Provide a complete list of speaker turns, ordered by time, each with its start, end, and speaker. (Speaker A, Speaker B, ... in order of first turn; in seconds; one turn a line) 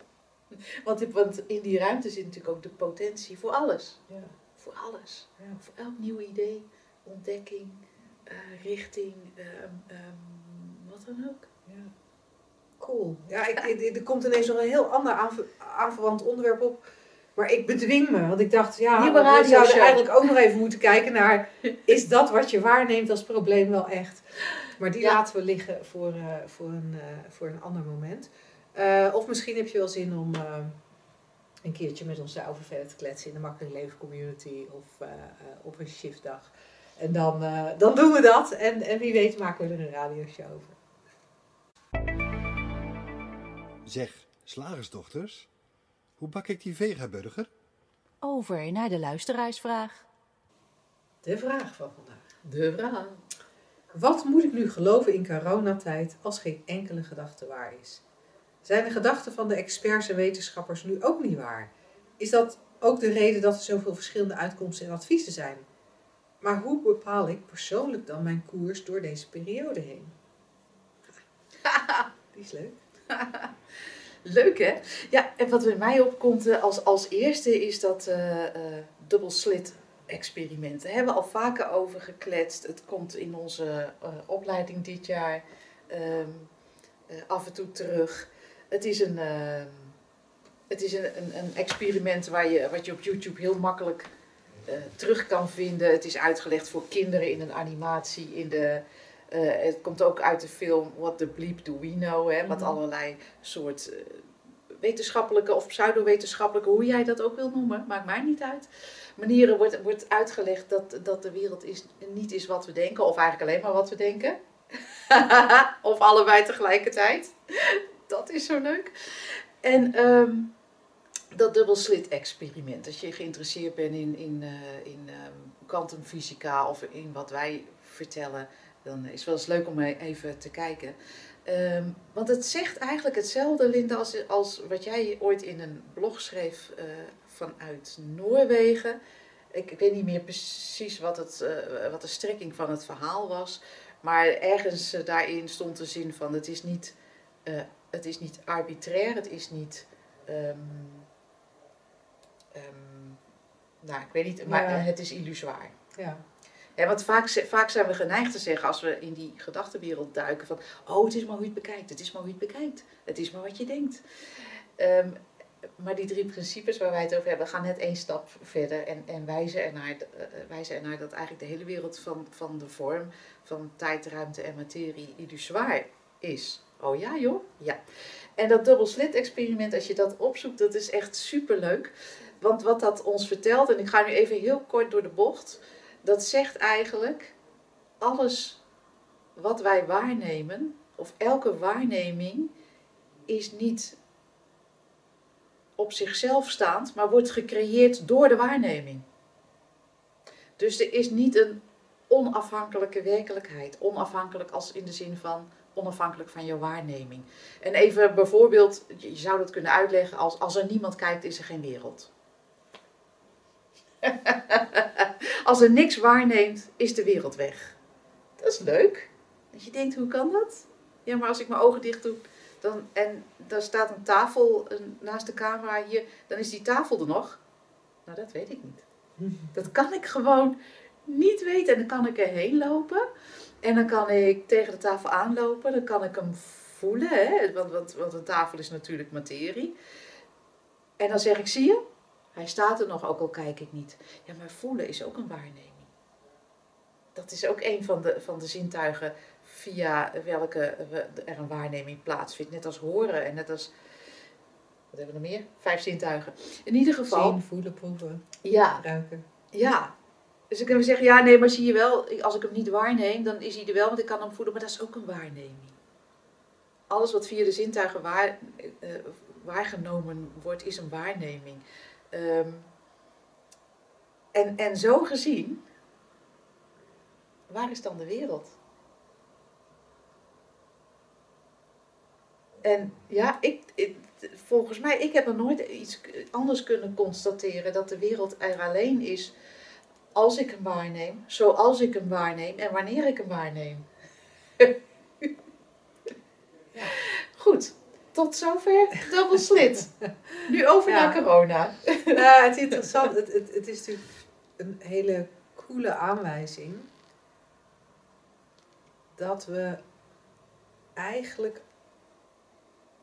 Speaker A: 0.5-4.0
Speaker A: 4.6-11.5
Speaker B: 5.4-5.7
Speaker B: 11.7-11.9
Speaker B: 12.8-30.8
Speaker A: 18.9-20.1
Speaker B: 31.6-40.8
Speaker C: 43.9-45.5
Speaker C: 46.2-47.5
Speaker A: 48.2-50.1
Speaker B: 51.2-52.3
Speaker A: 52.4-53.2
Speaker B: 53.9-58.0
Speaker B: 58.6-65.7
Speaker B: 66.4-70.1
Speaker A: 71.6-72.1
Speaker B: 72.3-72.8
Speaker A: 73.1-73.5
Speaker A: 74.2-86.5
Speaker A: 87.1-90.0
Speaker A: 90.7-94.1
Speaker A: 94.7-120.5
Speaker B: 102.5-102.8
Speaker A: 121.3-139.0
Speaker A: 139.5-151.1
Speaker A: 152.5-153.2
Speaker A: 153.8-155.7
Speaker B: 154.4-154.9
Speaker B: 155.9-156.2
Speaker A: 156.8-165.2
Speaker A: 165.8-177.8
Speaker A: 178.4-187.3
Speaker A: 188.0-188.6
Speaker A: 189.3-192.5
Speaker A: 193.3-193.9
Speaker A: 195.8-199.0
Speaker A: 200.6-212.1
Speaker A: 214.0-217.8
Speaker A: 218.4-227.4
Speaker A: 228.1-228.8
Speaker B: 229.2-229.5
Speaker A: 229.5-230.5
Speaker A: 231.1-233.0
Speaker A: 233.6-239.7
Speaker A: 241.0-241.8
Speaker A: 242.3-245.9
Speaker A: 247.1-253.7
Speaker A: 254.9-257.4
Speaker B: 257.1-259.2
Speaker A: 258.4-258.8
Speaker A: 259.5-259.9
Speaker A: 260.5-265.8
Speaker A: 266.9-272.7
Speaker A: 274.3-275.6
Speaker A: 277.5-278.6
Speaker A: 282.6-289.3
Speaker A: 290.1-293.9
Speaker A: 294.6-295.3
Speaker A: 296.9-299.9
Speaker B: 300.3-301.2
Speaker A: 300.4-302.2
Speaker B: 302.1-306.9
Speaker B: 309.1-309.8
Speaker B: 310.9-311.6